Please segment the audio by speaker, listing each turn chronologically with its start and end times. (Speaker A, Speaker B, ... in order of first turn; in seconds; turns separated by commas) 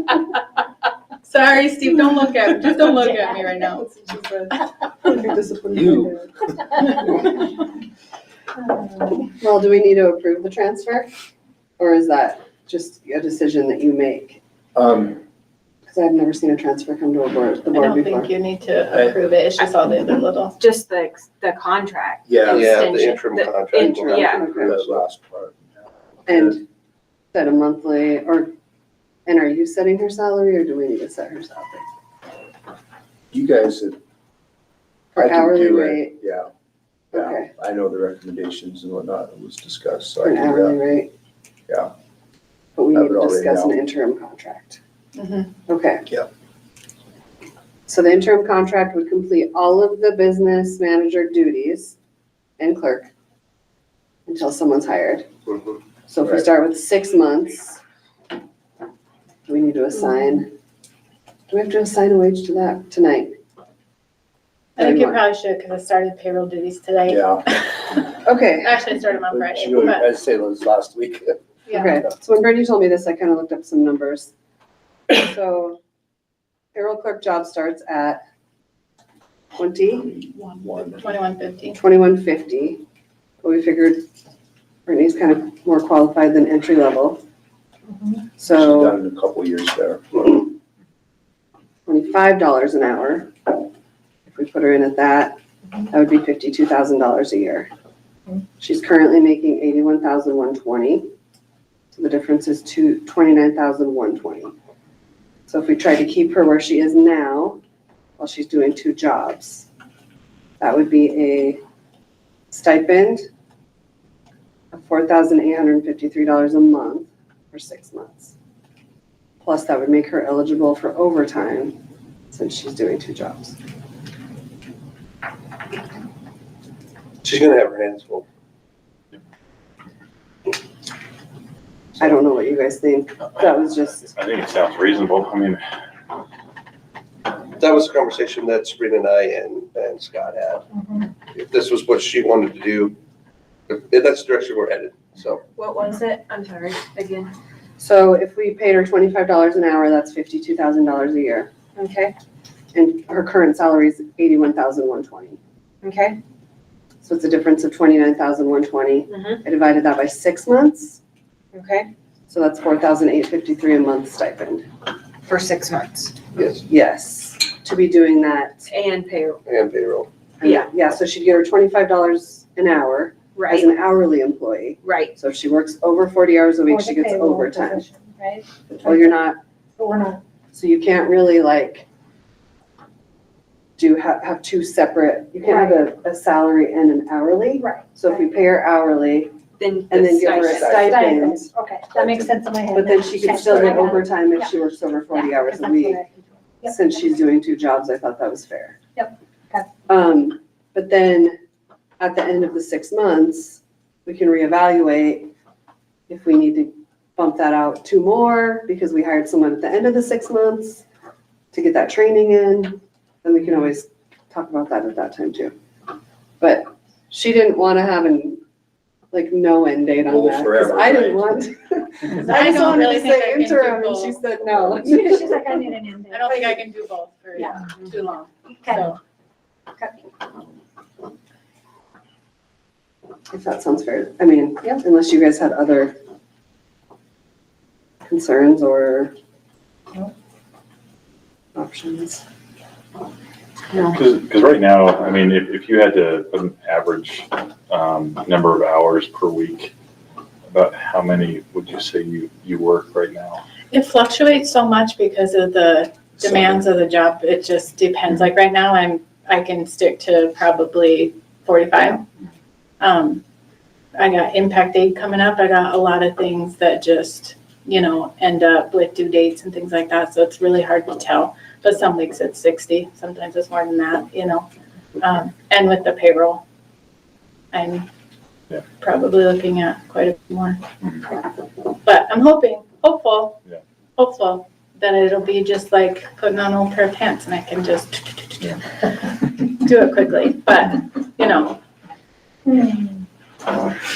Speaker A: 1.2-3.9, Speaker B: 4.0-4.5, Speaker B: 5.0-6.2, Speaker C: 5.7-6.2, Speaker B: 9.2-11.1, Speaker B: 11.8-14.4, Speaker C: 14.7-15.2, Speaker B: 15.9-18.3, Speaker A: 17.7-20.6, Speaker D: 19.6-19.8, Speaker D: 20.6-24.5, Speaker C: 22.3-22.7, Speaker E: 22.4-25.0, Speaker B: 23.7-24.7, Speaker C: 24.6-25.6, Speaker B: 26.3-26.6, Speaker C: 26.3-26.6, Speaker B: 27.3-28.5, Speaker B: 29.2-31.9, Speaker C: 33.3-34.0, Speaker B: 35.1-36.2, Speaker C: 35.2-36.5, Speaker C: 37.1-40.8, Speaker B: 37.1-37.5, Speaker B: 40.2-41.1, Speaker B: 42.8-44.8, Speaker C: 42.9-43.8, Speaker A: 45.1-45.5, Speaker B: 45.7-46.1, Speaker B: 47.9-51.9, Speaker B: 52.6-53.1, Speaker B: 54.3-55.3, Speaker E: 55.5-55.8, Speaker B: 56.1-57.8, Speaker B: 59.5-60.5, Speaker B: 61.5-63.3, Speaker A: 64.8-67.7, Speaker B: 64.8-65.2, Speaker C: 67.1-67.5, Speaker B: 68.2-68.8, Speaker A: 68.6-70.1, Speaker C: 69.3-71.4, Speaker A: 71.7-71.9, Speaker B: 71.7-74.3, Speaker B: 75.1-75.8, Speaker B: 76.7-78.2, Speaker B: 79.6-80.1, Speaker C: 80.0-81.1, Speaker A: 80.8-81.8, Speaker B: 81.7-82.8, Speaker B: 83.4-84.0, Speaker B: 84.8-87.2, Speaker B: 88.4-89.0, Speaker C: 88.4-90.4, Speaker B: 91.8-93.7, Speaker B: 94.3-97.7, Speaker B: 98.6-101.1, Speaker B: 101.9-104.5, Speaker B: 105.5-107.6, Speaker B: 108.2-109.7, Speaker B: 110.6-111.6, Speaker B: 112.5-113.2, Speaker B: 114.7-118.3, Speaker B: 119.4-121.8, Speaker B: 122.3-123.6, Speaker E: 127.2-128.2, Speaker B: 132.0-134.1, Speaker F: 134.1-135.6, Speaker E: 137.6-140.6, Speaker G: 140.8-141.0, Speaker E: 141.3-142.9, Speaker E: 143.7-145.4, Speaker D: 145.5-147.3, Speaker B: 147.8-151.5, Speaker D: 151.8-152.1, Speaker B: 152.7-155.4, Speaker D: 155.8-156.2, Speaker B: 157.0-161.0, Speaker D: 159.1-159.4, Speaker D: 161.5-161.9, Speaker B: 162.3-164.6, Speaker D: 165.2-166.2, Speaker E: 166.3-166.6, Speaker B: 166.6-168.7, Speaker D: 168.7-169.4, Speaker E: 169.4-170.1, Speaker B: 170.4-177.8, Speaker D: 173.3-173.7, Speaker D: 174.8-175.1, Speaker G: 176.7-179.1, Speaker B: 178.7-179.4, Speaker G: 179.8-180.2, Speaker B: 180.5-181.9, Speaker B: 183.8-189.3, Speaker G: 185.4-185.8, Speaker G: 187.6-188.1, Speaker D: 189.6-191.0, Speaker B: 189.9-191.5, Speaker C: 190.4-190.9, Speaker G: 190.7-194.5, Speaker C: 191.9-192.3, Speaker B: 192.7-196.0, Speaker C: 193.4-193.8, Speaker G: 195.1-196.8, Speaker B: 196.6-198.8, Speaker G: 198.9-199.7, Speaker B: 199.9-201.3, Speaker B: 202.0-205.3, Speaker B: 206.1-210.8, Speaker B: 211.5-215.5, Speaker B: 216.4-218.4, Speaker B: 219.1-225.7, Speaker C: 220.1-221.3, Speaker A: 222.2-224.2, Speaker G: 224.8-226.6, Speaker A: 226.1-229.0, Speaker G: 228.6-228.9, Speaker B: 233.3-235.9, Speaker B: 238.0-239.1, Speaker B: 241.5-242.2, Speaker F: 243.8-249.7, Speaker F: 250.5-253.4, Speaker A: 253.7-262.0, Speaker A: 262.8-263.2, Speaker A: 263.9-274.5, Speaker A: 275.0-276.4, Speaker A: 277.5-277.9, Speaker A: 278.8-280.6, Speaker A: 281.8-283.4, Speaker A: 284.0-291.6, Speaker G: 292.5-292.9